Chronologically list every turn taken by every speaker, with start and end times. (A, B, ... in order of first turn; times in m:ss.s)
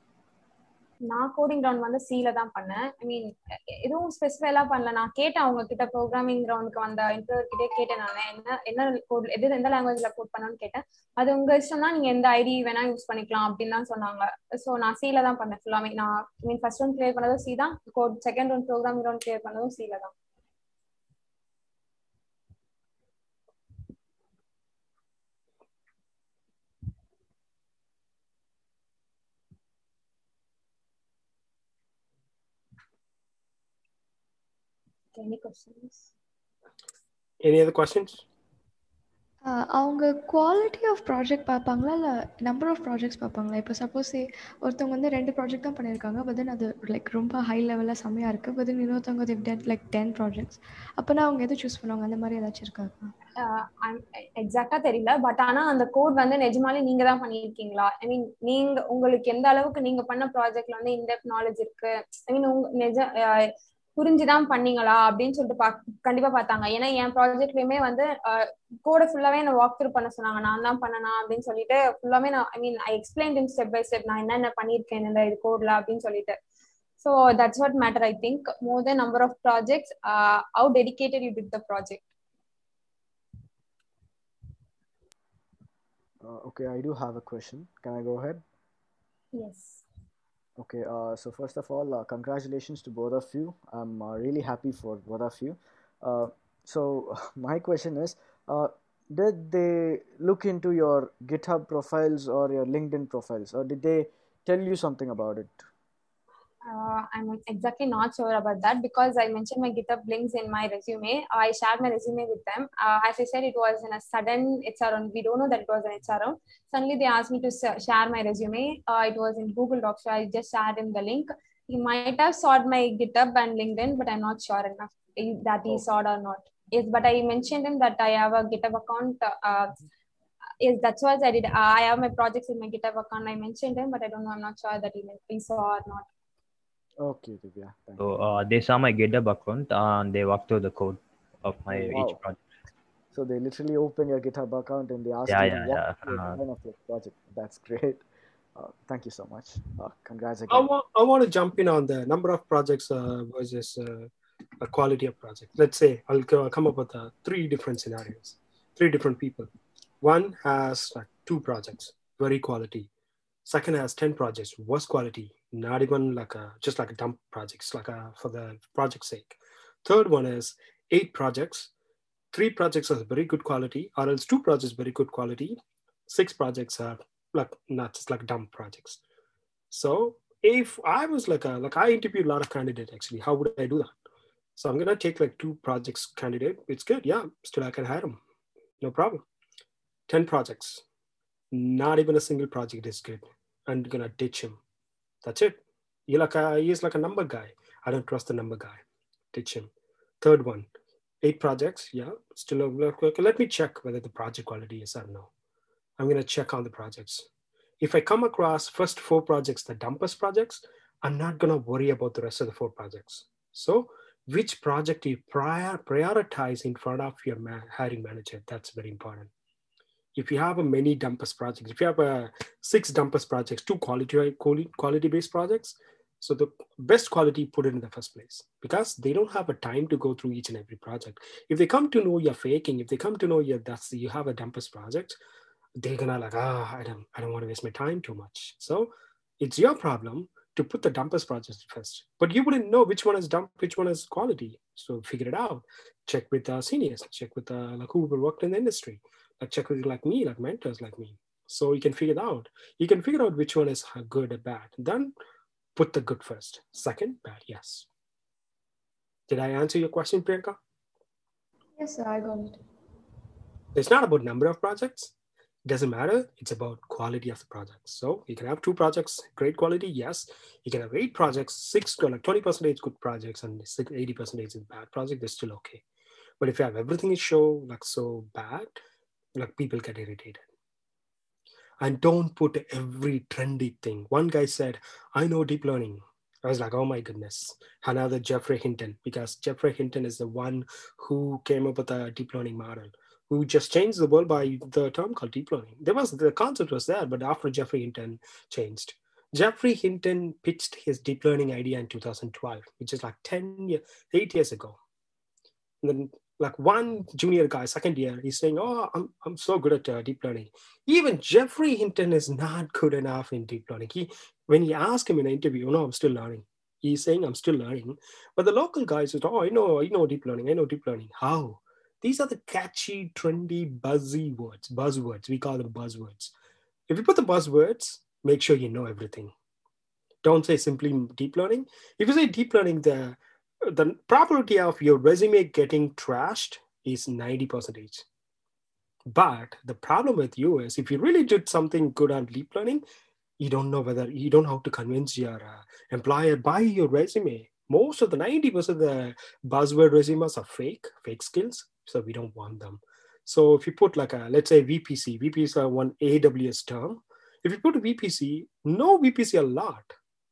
0:01.1-0:20.1 A
0:35.1-0:36.1 A
0:37.4-0:38.2 B
0:39.4-0:53.1 C
0:53.4-1:16.4 A
1:17.0-1:22.0 A
1:26.2-1:28.4 D
1:29.3-1:29.8 A
1:30.6-1:45.7 D
1:46.6-2:09.7 A
2:10.6-2:16.1 A
2:17.0-2:18.1 D
2:18.0-2:22.4 E
2:21.7-2:22.2 D
2:23.1-2:30.7 D
2:25.3-2:26.4 E
2:30.5-2:34.1 B
2:34.6-2:39.5 B
2:40.0-2:42.9 B
2:43.4-2:51.7 B
2:52.3-2:59.0 B
2:59.7-3:04.0 B
3:04.6-3:08.2 B
3:08.8-3:09.2 B
3:10.1-3:10.8 B
3:11.5-3:14.6 B
3:15.2-3:18.8 B
3:19.3-3:20.7 B
3:21.2-3:25.3 B
3:26.0-3:27.3 B
3:27.8-3:39.3 B
3:40.2-3:55.2 B
3:55.8-4:15.1 B
4:15.8-4:17.9 B
4:19.3-4:20.6 B
4:21.8-4:22.6 C
4:23.8-4:25.1 B
4:25.7-4:35.8 B
4:36.4-4:38.8 B
4:39.4-4:40.4 B
4:41.8-5:04.8 B
5:05.8-5:26.3 B
5:26.9-5:29.3 B
5:30.2-5:38.0 B
5:39.1-5:42.8 B
5:43.4-5:59.9 B